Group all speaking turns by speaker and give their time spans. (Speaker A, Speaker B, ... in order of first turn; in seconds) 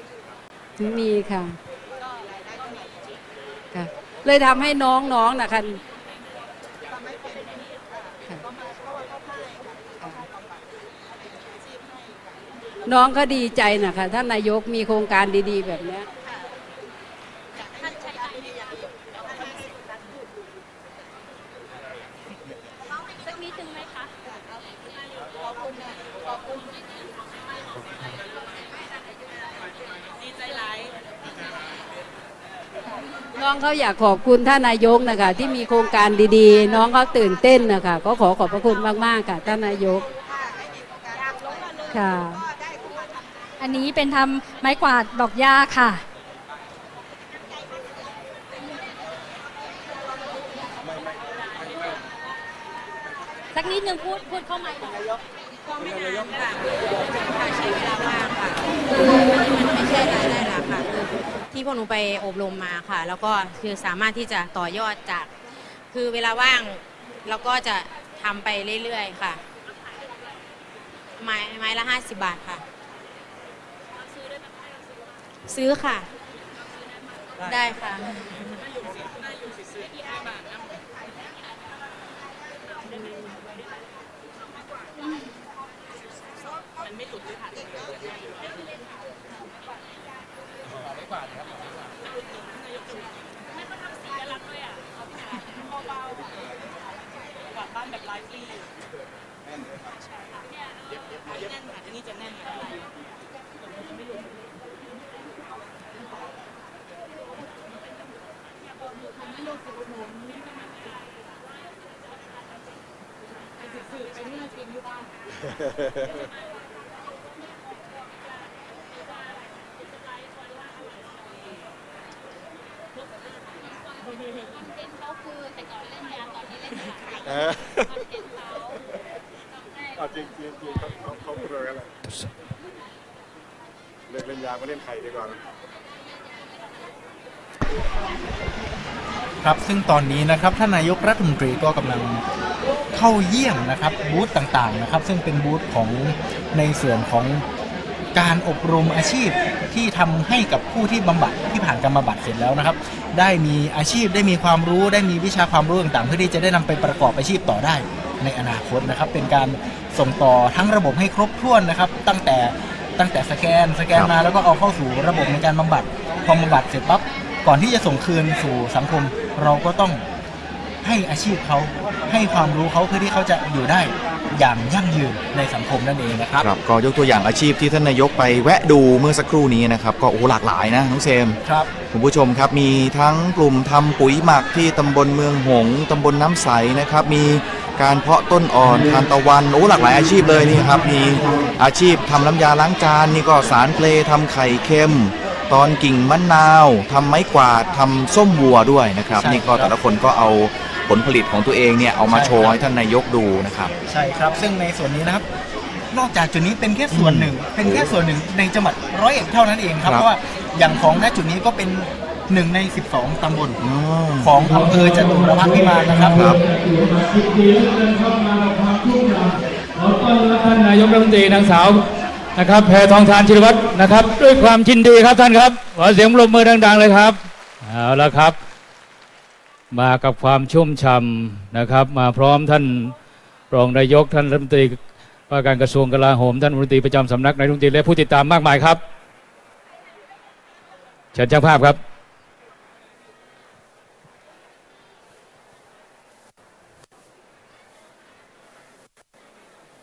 Speaker A: 0.8-1.6, 3.7-5.8, 10.0-10.2, 12.9-16.1, 33.4-40.1, 41.9-42.5
Speaker B: 43.6-46.0, 53.5-55.0
Speaker C: 55.7-65.3, 65.9-69.4, 71.2-72.6, 75.5-76.1, 77.4-78.6, 82.9-83.3
Speaker D: 127.3-127.9, 130.0-131.9, 134.1-135.4
Speaker E: 139.4-142.2, 142.9-147.4, 148.2-170.0, 170.8-176.5, 181.4-181.7, 199.2-199.7, 202.1-202.6, 203.9-205.3, 205.9-213.6, 214.2-216.2
Speaker F: 176.4-181.4, 181.9-203.7, 206.9-207.9, 213.6-214.3, 216.1-216.4
Speaker G: 214.5-221.8, 222.4-228.4, 229.7-232.9, 233.5-238.8, 241.1-241.8